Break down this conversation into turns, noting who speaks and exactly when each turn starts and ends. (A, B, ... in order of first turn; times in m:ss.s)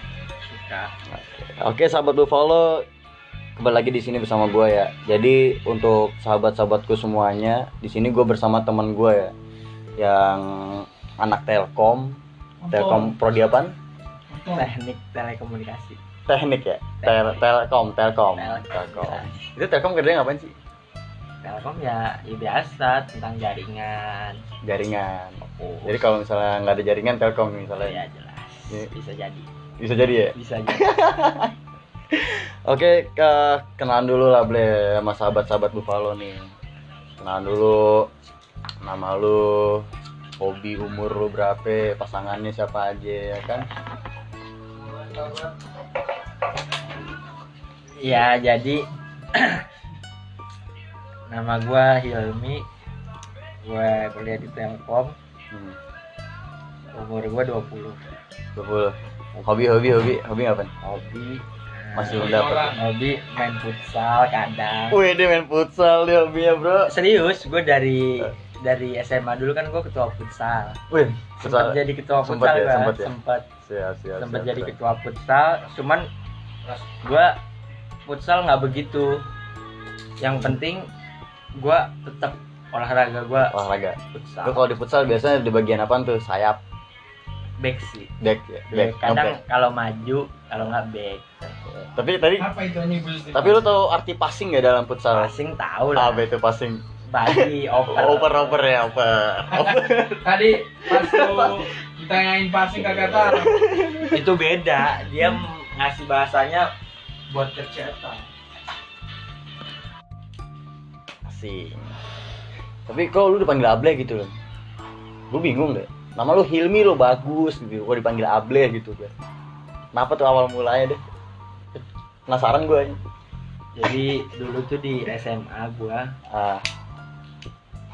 0:00.4-0:00.9 A
0:01.1-0:02.8 B
0:03.6-0:09.3 B
0:10.0-0:13.7 B
0:14.4-0:16.0 A
0:16.3-0:20.5 B
0:17.0-0:17.4 A
0:18.4-0:19.3 A
0:21.4-0:24.4 A
0:24.6-0:28.0 B
0:25.4-0:26.0 A
0:27.8-0:29.5 A
0:29.8-0:31.5 B
0:30.3-0:31.0 A
0:32.1-0:36.5 B
0:37.2-0:38.1 B
0:38.8-0:39.8 B
0:40.4-0:43.7 B
0:48.0-0:49.6 A
0:51.3-0:52.6 A
0:53.6-0:55.1 A
0:55.5-0:55.8 B
0:56.9-0:58.0 A
0:58.5-1:00.7 B
1:00.8-1:05.0 A
1:02.0-1:02.8 B
1:02.1-1:02.8 C
1:04.9-1:06.9 B
1:06.8-1:10.8 A
1:10.9-1:13.1 B
1:11.4-1:13.5 A
1:13.6-1:14.7 B
1:14.2-1:16.1 A
1:16.7-1:17.4 A
1:18.0-1:19.2 A
1:20.2-1:20.9 A
1:21.6-1:23.6 A
1:23.4-1:26.6 B
1:24.1-1:24.6 A
1:27.6-1:28.1 A
1:28.2-1:29.4 B
1:28.7-1:31.5 A
1:31.7-1:32.5 B
1:32.4-1:33.6 C
1:33.3-1:35.3 B
1:35.1-1:36.3 A
1:35.9-1:41.6 B
1:37.1-1:38.6 A
1:39.6-1:43.6 C
1:42.7-1:44.2 B
1:44.1-1:46.7 A
1:47.3-1:48.2 A
1:51.2-1:51.9 B
1:52.9-1:54.3 B
1:55.3-1:59.1 B
1:59.9-2:01.0 B
2:01.7-2:03.0 B
2:03.8-2:06.0 A
2:06.3-2:06.6 B